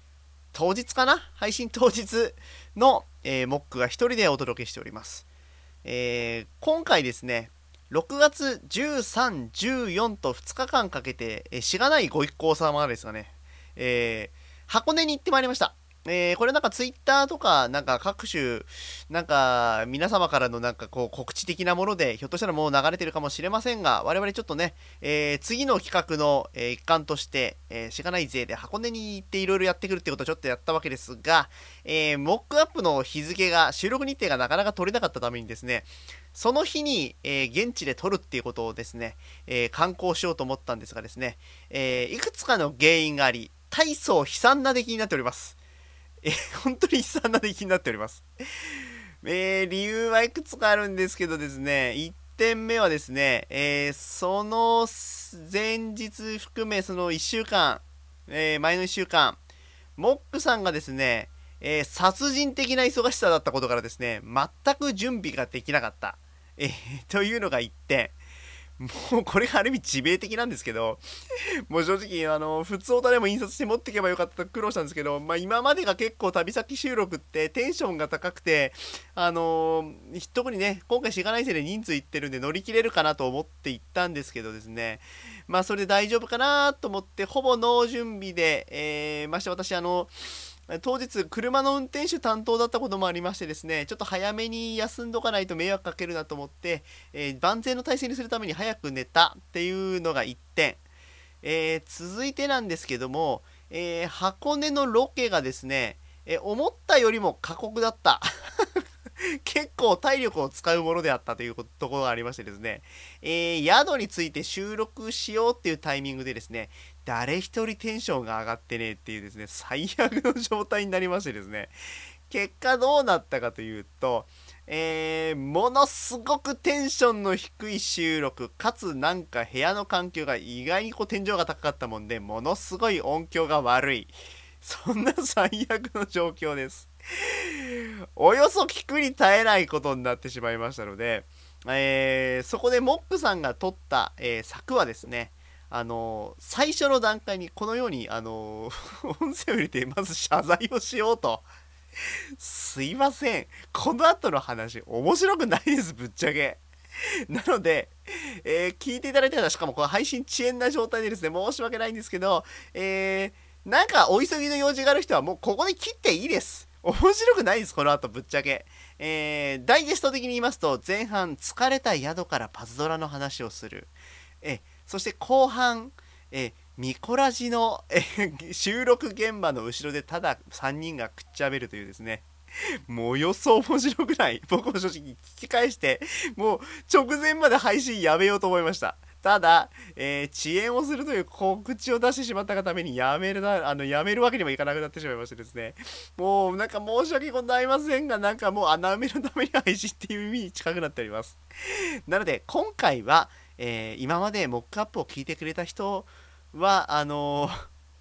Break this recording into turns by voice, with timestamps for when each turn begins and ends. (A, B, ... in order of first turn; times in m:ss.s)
0:00.5-0:05.2 A
0:05.8-0:45.6 A
0:46.2-0:48.2 A
0:49.2-0:59.4 A
1:00.0-1:08.2 A
1:08.8-1:11.0 A
1:11.7-1:30.1 A
1:30.7-1:40.8 A
1:41.4-2:01.8 A
2:02.3-2:31.5 A
2:32.4-2:36.6 A
2:37.3-3:27.6 A